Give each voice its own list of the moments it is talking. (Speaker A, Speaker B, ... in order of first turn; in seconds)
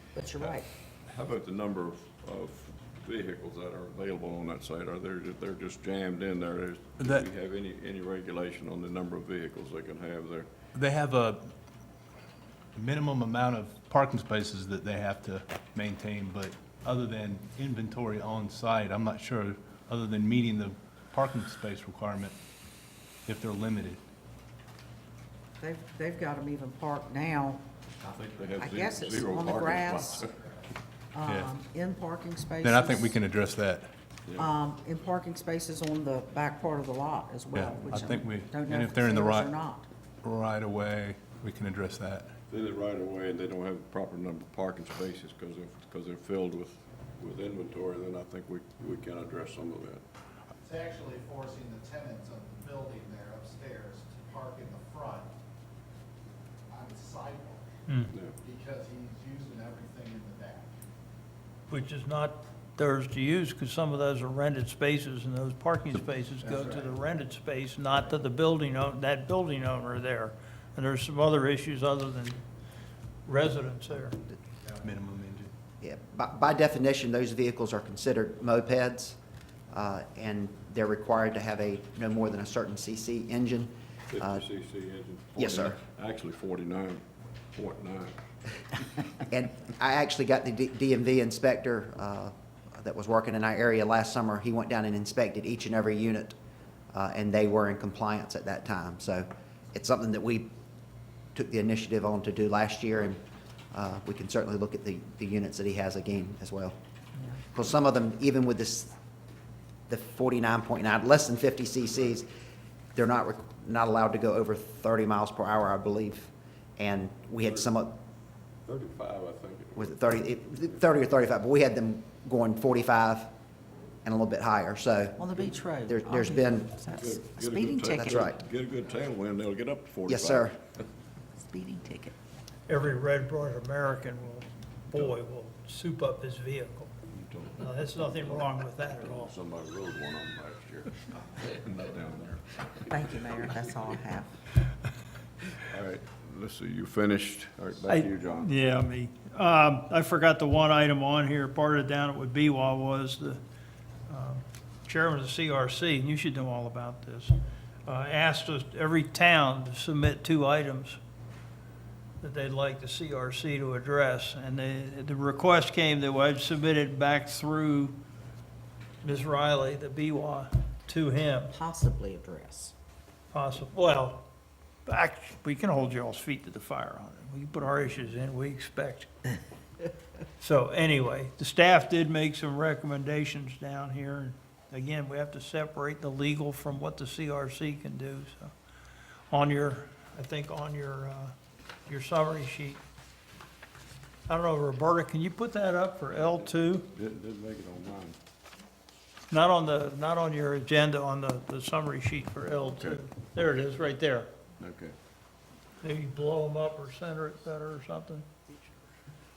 Speaker A: 0.1-0.7, 25.6-27.6, 28.6-30.2, 31.1-33.2, 34.4-39.9, 125.2-128.3, 131.3-132.1, 142.9-144.3, 171.5-172.7
Speaker B: 0.4-10.5, 28.0-30.4, 42.5-50.0, 58.1-58.4, 84.1-87.0, 87.5-88.2, 118.7-120.0, 126.9-130.5, 137.1-138.5, 139.0-142.8, 145.7-148.6, 196.1-198.2, 202.6-203.0, 204.6-204.9
Speaker C: 7.0-7.2, 10.7-11.5, 12.8-22.3, 23.3-24.0, 31.2-31.5, 32.6-33.9, 37.5-39.5, 40.2-42.4, 74.8-75.5
Speaker D: 50.6-55.3, 56.7-57.6, 58.4-60.7, 66.5-66.9
Speaker E: 61.7-72.4, 73.2-74.2, 132.7-136.9, 137.6-139.3, 147.9-153.4, 154.1-161.0, 162.2-168.0, 169.0-171.5, 173.3-174.2, 174.8-179.1, 180.4-188.5, 189.3-191.3, 191.9-192.8, 194.3-196.9, 199.3-204.3, 205.8-208.3
Speaker F: 75.8-79.2, 79.7-84.4, 85.4-85.8, 89.3-96.3, 96.9-100.5, 101.3-103.2, 103.7-106.8, 107.5-109.0, 109.9-112.3, 112.9-118.0, 119.7-123.3, 124.0-125.2, 125.9-126.7, 128.0-128.3, 130.1-130.6